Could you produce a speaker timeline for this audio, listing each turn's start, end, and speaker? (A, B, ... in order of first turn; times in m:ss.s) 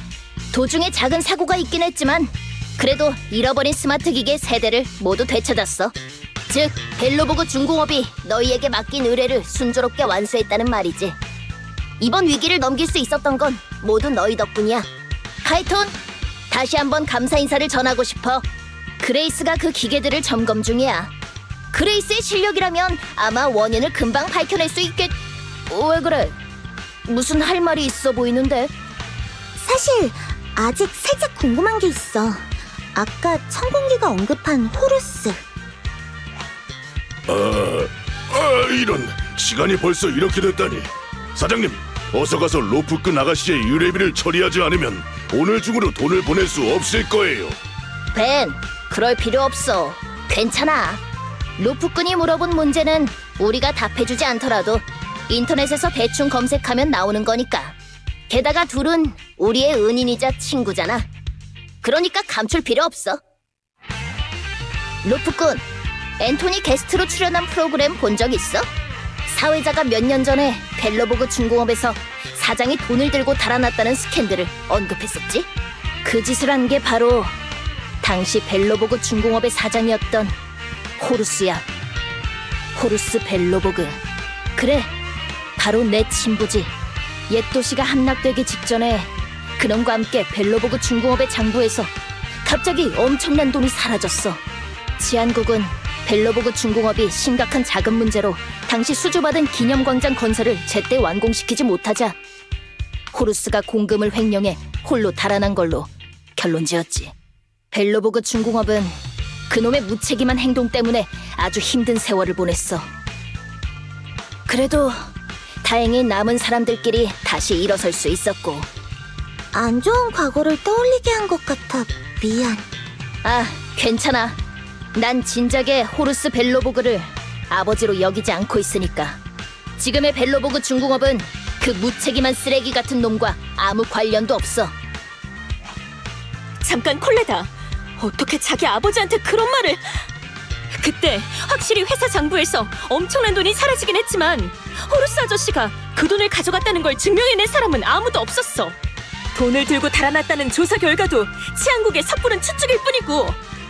0:00.5-0:05.9 A
0:06.5-0:11.2 A
0:12.0-0:14.9 A
0:15.4-0:15.9 A
0:16.5-0:18.4 A
0:19.0-0:21.1 A
0:21.7-0:25.1 A
0:25.7-0:26.3 A
0:27.1-0:28.7 A
0:29.6-0:32.4 B
0:32.9-0:35.4 B
0:37.3-0:47.6 C
0:48.1-0:51.0 A
0:51.6-0:57.7 A
0:58.3-1:01.1 A
1:01.8-1:03.2 A
1:05.0-1:05.6 A
1:06.2-1:08.7 A
1:09.3-1:15.5 A
1:16.0-1:17.3 A
1:18.0-1:20.3 A
1:21.0-1:21.6 A
1:22.7-1:24.0 A
1:24.6-1:24.9 A
1:25.6-1:26.7 A
1:27.3-1:31.9 A
1:32.4-1:34.4 A
1:35.0-1:42.1 A
1:43.1-1:47.1 A
1:47.7-1:49.0 A
1:49.5-1:52.9 A
1:54.5-1:55.0 A
1:55.6-1:58.7 A
1:59.5-2:02.6 B
2:03.2-2:04.4 A
2:04.9-2:09.2 A
2:09.8-2:14.7 A
2:16.6-2:20.0 D
2:20.7-2:28.7 D
2:29.3-2:33.4 D